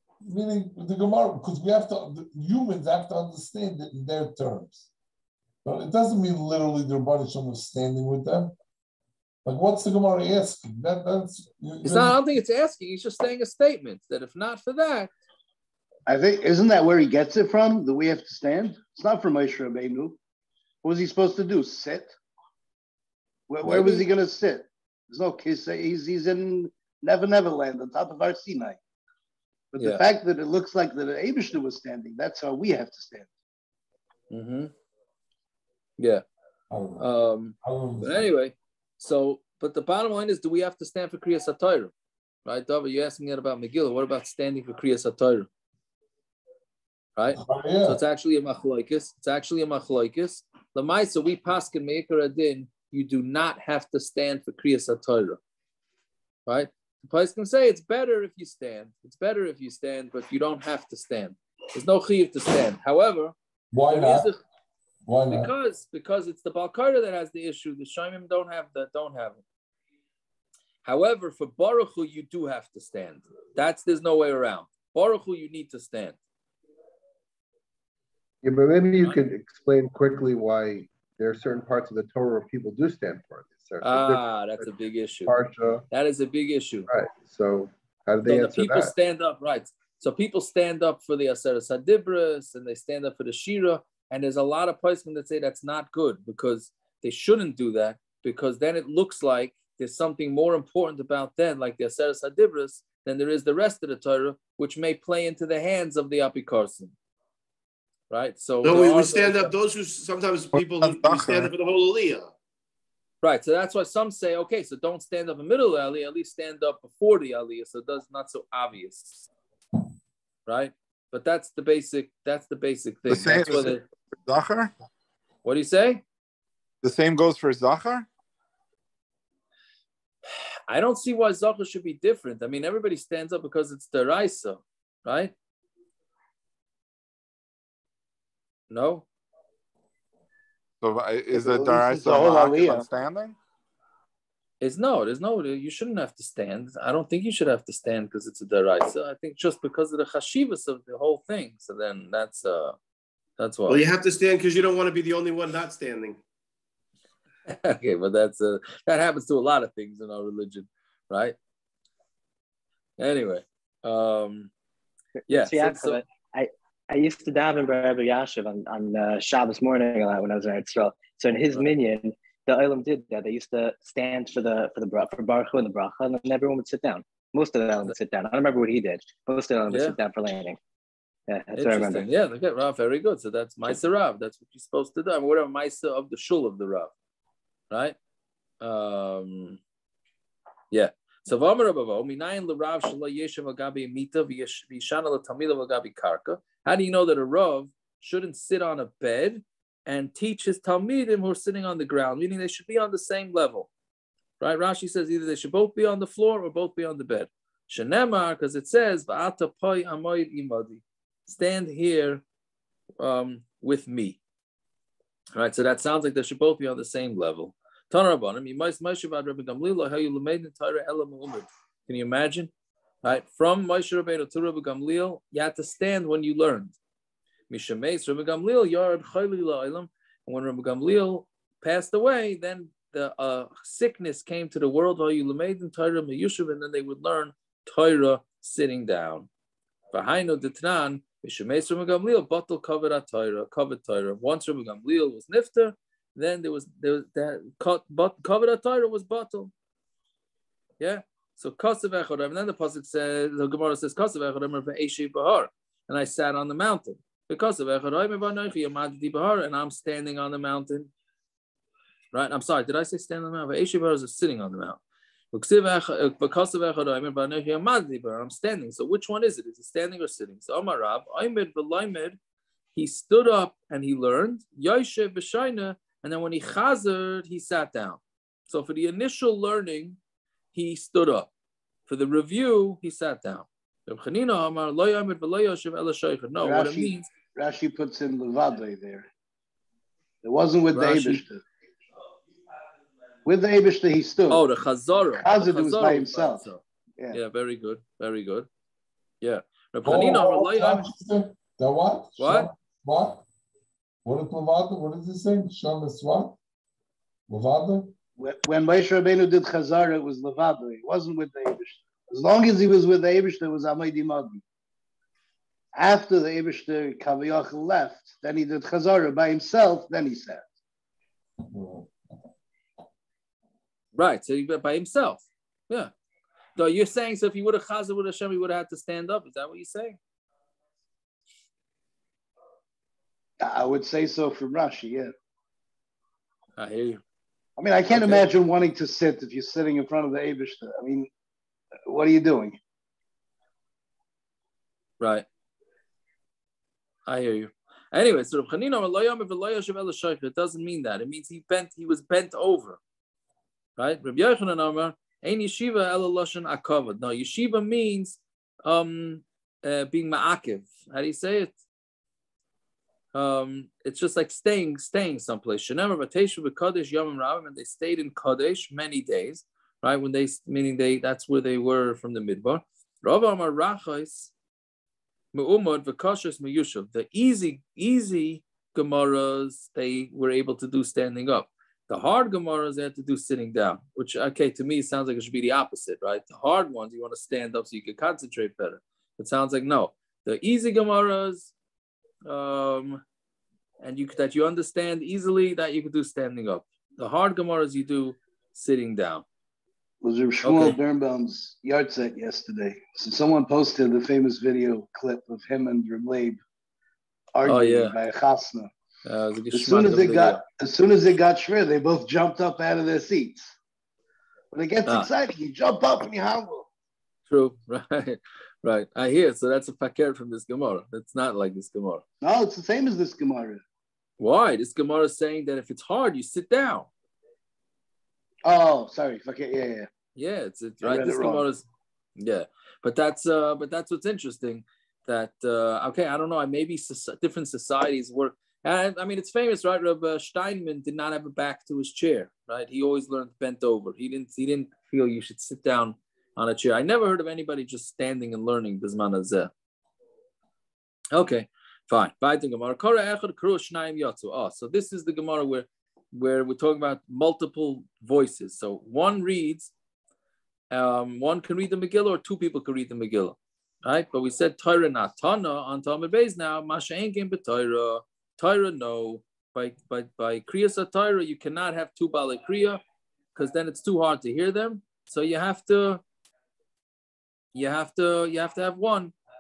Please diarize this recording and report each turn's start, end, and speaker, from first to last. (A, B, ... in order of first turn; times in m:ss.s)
0:00.2-0:04.9 A
0:05.6-0:08.6 A
0:09.4-0:12.2 A
0:11.8-0:15.1 B
0:16.1-0:20.2 C
0:20.8-0:22.1 C
0:23.5-0:28.8 C
0:23.6-0:24.0 B
0:29.7-0:33.3 C
0:29.8-0:30.0 B
0:34.3-0:34.7 B
0:36.7-0:37.1 A
0:37.0-0:41.9 B
0:37.6-0:38.3 A
0:42.4-0:45.5 B
0:47.2-0:55.4 B
0:47.4-0:48.0 A
0:56.5-1:03.4 B
1:03.7-1:04.3 A
1:03.9-1:04.4 B
1:05.1-1:05.5 A
1:05.3-1:09.4 B
1:10.8-1:16.2 B
1:18.4-1:24.7 D
1:23.8-1:25.3 B
1:25.2-1:25.8 D
1:25.9-1:26.9 B
1:26.9-1:28.9 D
1:28.2-1:46.9 B
1:48.1-1:49.5 B
1:48.6-1:52.3 E
1:50.5-1:51.5 F
1:53.2-1:59.3 B
2:00.5-2:03.8 B
2:03.1-2:04.7 F
2:05.4-2:06.0 B
2:06.8-2:08.1 F
2:10.7-2:15.3 B
2:18.7-2:19.0 B
2:20.8-2:23.4 F
2:21.3-2:22.9 C
2:24.6-2:32.8 B
2:33.4-2:33.8 B
2:33.7-2:36.2 E
2:37.5-2:41.4 B
2:43.0-2:44.5 B
2:45.3-2:46.0 B
2:45.3-3:00.6 G
2:59.7-3:00.0 B
3:01.3-3:02.1 G
3:01.6-3:06.9 B
3:07.7-3:08.0 B
3:08.6-3:09.6 B
3:10.7-3:23.7 B
3:24.4-3:32.2 B
3:33.0-3:34.2 B
3:35.4-3:42.5 B
3:43.0-3:46.8 B
3:47.5-3:59.3 B
3:59.9-4:09.5 B
4:10.8-4:20.9 B
4:22.1-4:24.8 B
4:25.3-4:32.2 B
4:32.8-4:40.0 B
4:40.5-4:41.3 B
4:41.9-4:47.1 B
4:46.4-4:49.1 C
4:50.2-4:51.4 C
4:50.7-4:51.2 B
4:53.3-4:54.4 C
4:54.3-4:58.5 B
4:55.1-4:56.5 C
4:59.2-5:00.9 B
4:59.8-5:03.2 A
5:02.2-5:02.5 B
5:04.0-5:06.4 A
5:07.3-5:07.9 A
5:08.2-5:14.4 C
5:15.8-5:20.4 C
5:21.4-5:21.9 A
5:24.0-5:25.9 B
5:26.6-5:30.0 B
5:33.4-5:35.1 C
5:36.6-5:37.0 B
5:37.6-5:41.1 C
5:37.9-5:38.2 B
5:41.9-5:42.6 C
5:45.0-5:45.3 B
5:47.1-5:52.8 B
5:53.8-6:01.5 B
6:03.1-6:14.3 B
6:15.3-6:31.5 B
6:32.3-6:33.0 B
6:33.8-6:39.2 B
6:40.0-6:46.4 C
6:40.4-6:40.8 B
6:47.4-6:48.7 C
6:47.5-6:48.0 B
6:49.0-6:50.4 B
6:49.5-6:53.5 C
6:54.5-6:56.7 C
6:57.3-7:02.0 B
7:02.2-7:03.6 C
7:04.2-7:06.9 B
7:08.4-7:09.9 C
7:10.2-7:11.7 B
7:10.8-7:11.5 C
7:12.2-7:29.5 B
7:31.1-7:39.7 B
7:40.7-7:52.8 B
7:53.4-7:56.0 B
7:57.5-7:59.1 B